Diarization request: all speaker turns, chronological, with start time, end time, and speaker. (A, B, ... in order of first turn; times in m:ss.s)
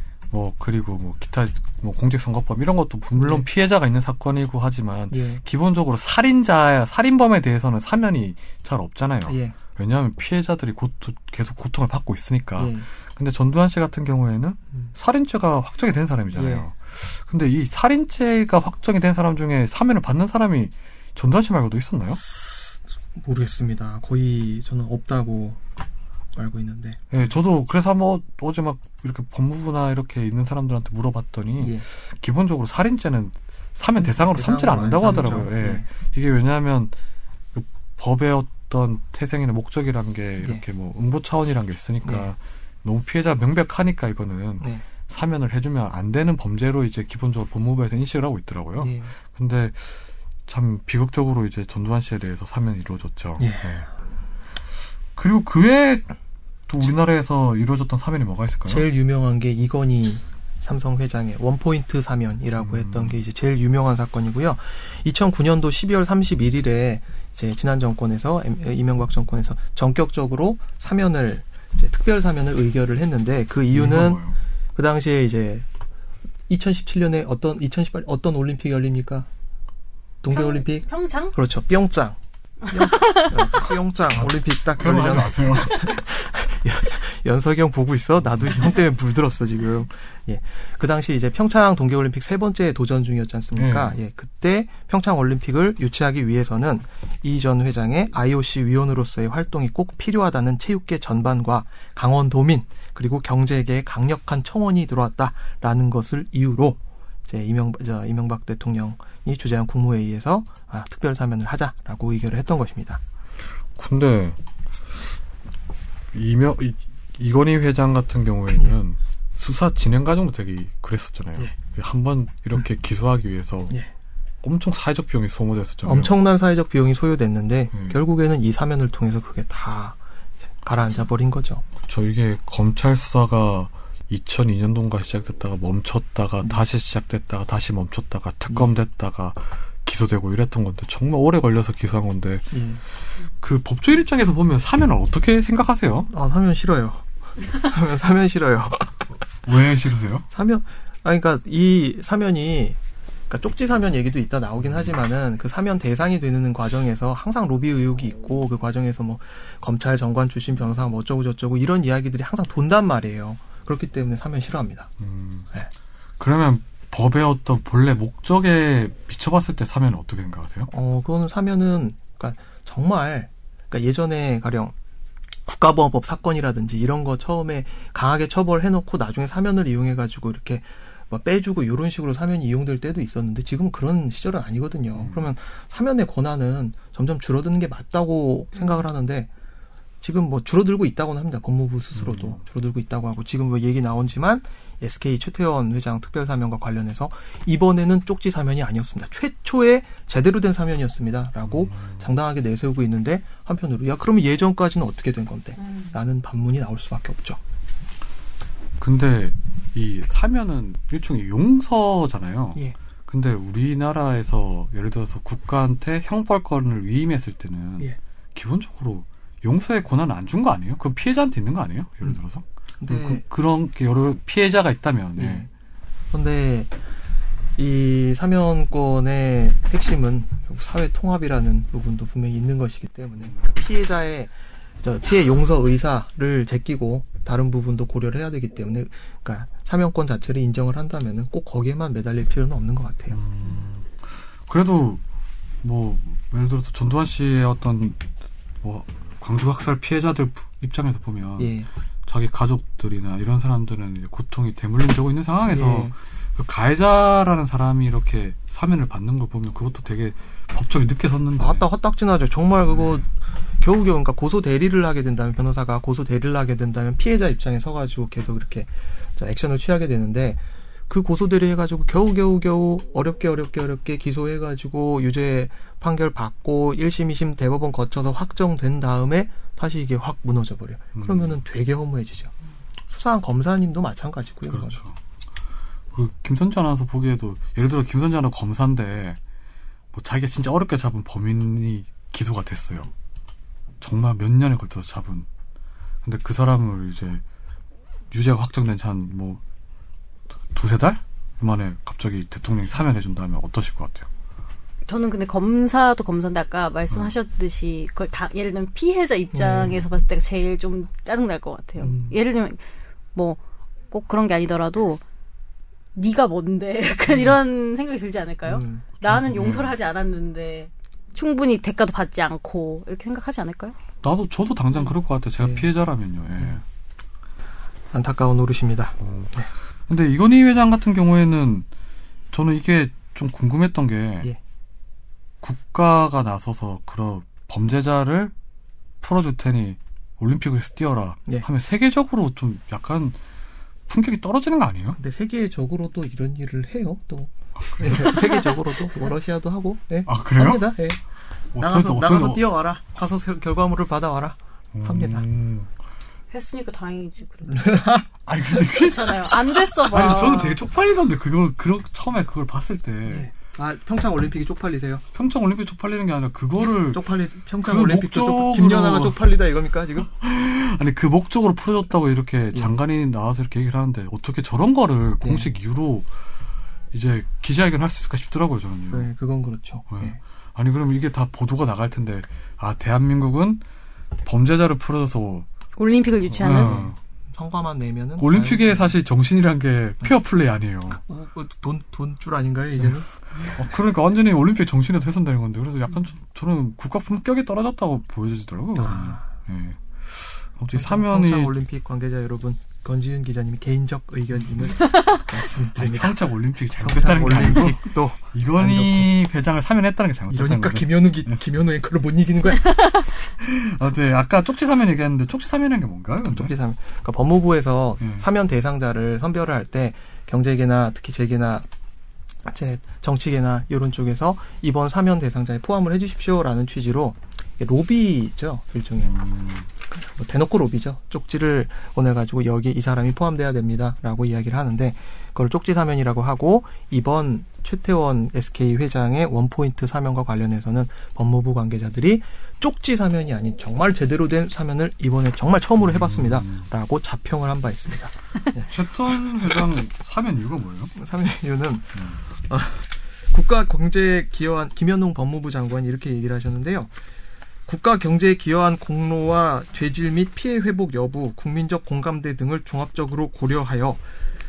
0:00.3-0:22.2 A
0:03.2-0:03.5 B
0:05.1-0:05.4 B
0:09.3-0:09.6 B
0:12.6-0:12.9 B
0:16.4-0:16.6 B
0:22.4-0:25.6 B
0:26.4-0:27.0 B
0:27.1-0:37.0 A
0:31.6-0:31.8 B
0:34.0-0:35.8 B
0:37.6-0:53.9 A
0:42.0-0:42.3 B
0:48.8-0:49.1 B
0:53.4-0:53.9 B
0:55.2-0:56.1 A
0:56.7-0:58.9 A
0:58.7-1:14.2 B
1:02.6-1:03.2 A
1:13.7-1:14.4 A
1:14.8-1:15.7 B
1:16.5-1:19.3 B
1:20.2-1:22.2 B
1:20.3-1:21.3 C
1:22.7-1:53.0 B
1:22.7-1:23.4 C
1:24.1-1:26.0 A
1:33.6-1:34.0 A
1:53.8-1:54.4 A
1:56.1-2:03.8 A
2:04.4-2:06.1 A
2:05.8-2:10.0 B
2:07.7-2:08.0 A
2:10.6-2:11.6 B
2:11.8-2:22.5 A
2:22.5-2:22.8 B
2:23.4-2:26.1 A
2:26.1-2:29.1 B
2:29.4-2:30.3 A
2:30.3-2:32.8 B
2:33.3-2:44.9 B
2:45.0-2:45.5 A
2:46.2-2:50.7 A
2:50.7-2:54.8 B
2:55.5-3:09.3 B
3:05.0-3:05.3 A
3:10.0-3:27.4 B
3:12.0-3:12.4 A
3:21.5-3:22.0 A
3:25.6-3:25.9 C
3:28.8-3:45.5 A
3:42.8-3:43.2 B
3:45.2-3:45.5 B
3:46.1-3:46.8 B
3:47.6-4:03.2 B
4:03.1-4:05.0 A
4:05.6-4:08.0 A
4:08.6-4:21.6 A
4:11.4-4:11.7 B
4:15.5-4:15.9 B
4:21.4-4:42.3 B
4:41.0-4:41.3 A
4:42.9-4:44.8 B
4:44.5-4:45.0 A
4:45.9-4:49.2 A
4:49.9-4:52.9 A
4:53.8-4:55.3 A
4:56.0-4:57.2 A
4:58.1-4:59.4 A
5:00.5-5:04.1 A
5:04.9-5:12.6 C
5:09.3-5:09.8 B
5:11.8-5:12.2 B
5:13.9-5:15.0 C
5:16.0-5:23.8 C
5:17.1-5:17.4 B
5:18.4-5:19.0 B
5:19.1-5:19.7 A
5:24.0-5:26.6 A
5:25.4-5:25.7 B
5:27.9-5:29.5 B
5:29.0-5:29.4 A
5:29.9-5:31.7 A
5:32.3-5:34.3 A
5:35.4-5:38.3 A
5:39.0-5:43.2 A
5:43.9-5:45.0 A
5:45.0-5:51.0 B
5:47.7-5:48.2 A
5:50.1-5:50.8 A
5:51.6-5:52.5 A
5:51.6-5:55.2 B
5:54.7-5:55.7 A
5:56.3-5:57.7 C
5:57.5-5:58.1 B
5:58.3-6:03.3 A
5:58.7-6:00.6 C
6:03.1-6:05.0 B
6:05.1-6:07.0 A
6:06.9-6:10.1 B
6:07.6-6:09.2 A
6:10.0-6:16.1 A
6:15.2-6:15.5 B
6:16.9-6:19.1 A
6:18.9-6:20.2 B
6:19.9-6:23.6 A
6:24.2-6:25.5 A
6:25.8-6:26.8 C
6:26.3-6:27.0 A
6:26.4-6:29.0 B
6:28.2-6:31.0 A
6:30.9-6:33.1 B
6:33.5-6:41.6 A
6:38.8-6:39.2 B
6:40.7-6:46.2 B
6:45.8-6:51.4 A
6:46.8-6:49.1 B
6:50.3-6:52.9 B
6:53.4-6:56.5 A
6:56.3-7:01.7 B
6:58.0-6:58.3 A
7:02.4-7:09.2 B
7:09.0-7:09.6 A
7:09.9-7:28.7 B
7:25.8-7:26.7 A
7:28.7-7:30.9 A
7:31.0-7:36.9 B
7:32.0-7:32.2 A
7:37.7-7:44.0 B